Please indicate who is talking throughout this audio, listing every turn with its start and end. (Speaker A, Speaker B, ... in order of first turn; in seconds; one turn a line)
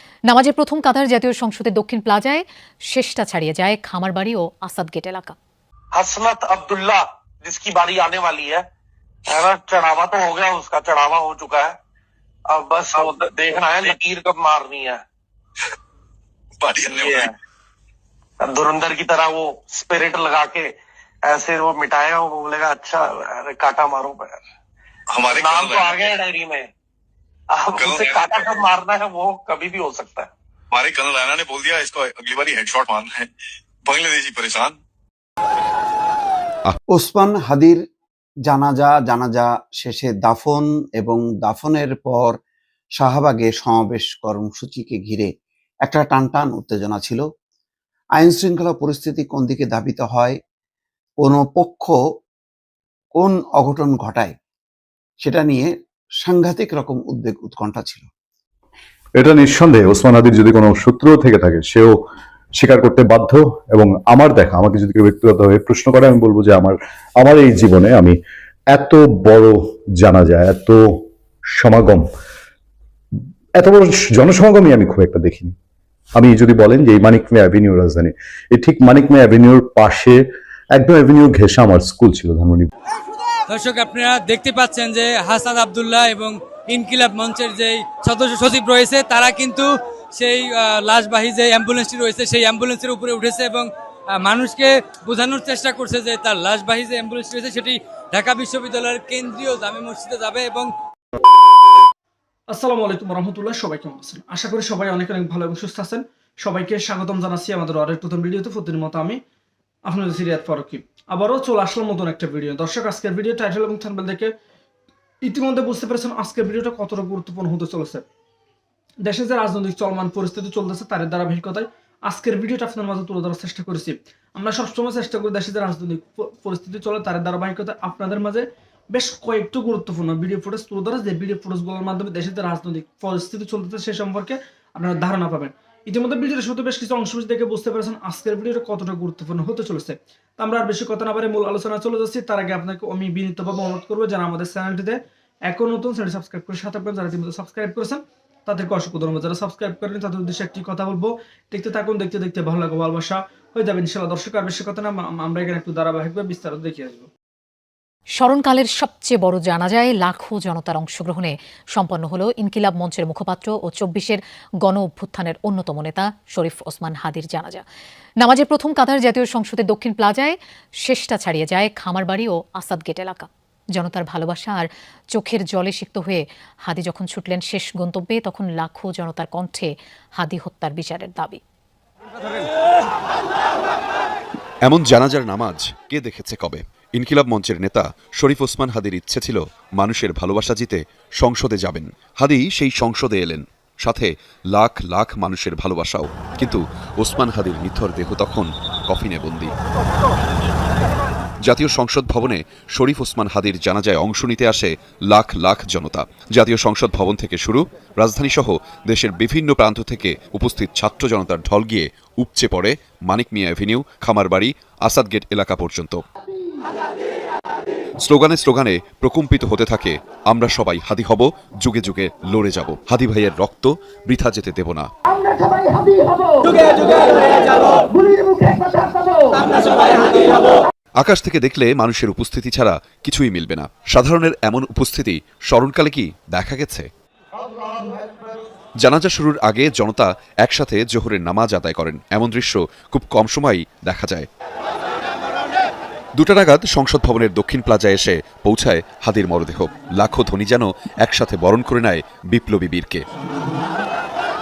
Speaker A: 0.3-5.3
Speaker B: 5.9-8.7
Speaker B: 9.3-11.8
Speaker B: 12.5-15.0
Speaker C: 16.6-17.2
Speaker B: 16.8-17.3
Speaker B: 18.4-24.4
Speaker C: 25.1-25.9
Speaker B: 25.2-26.7
Speaker B: 27.5-30.3
Speaker C: 27.8-28.2
Speaker C: 30.7-33.3
Speaker C: 33.8-34.8
Speaker D: 36.9-37.8
Speaker D: 38.5-42.3
Speaker D: 43.0-45.3
Speaker D: 45.8-47.2
Speaker D: 48.2-50.4
Speaker D: 51.2-51.9
Speaker D: 53.2-54.3
Speaker D: 55.2-55.7
Speaker D: 56.2-58.1
Speaker E: 59.2-62.0
Speaker E: 62.6-68.2
Speaker E: 68.7-70.9
Speaker E: 71.6-72.0
Speaker E: 73.6-75.5
Speaker E: 76.2-80.2
Speaker E: 80.7-82.7
Speaker F: 83.5-89.6
Speaker F: 90.2-93.6
Speaker F: 94.2-100.7
Speaker G: 102.5-109.2
Speaker G: 109.9-114.3
Speaker G: 115.2-118.0
Speaker G: 119.0-145.0
Speaker G: 145.5-157.1
Speaker A: 158.2-167.6
Speaker A: 168.2-181.4
Speaker H: 184.6-199.5
Speaker H: 201.4-216.0
Speaker H: 218.0-224.9
Speaker I: 225.2-227.0
Speaker I: 227.9-229.4
Speaker H: 231.0-236.9
Speaker H: 238.8-244.3
Speaker H: 246.2-253.0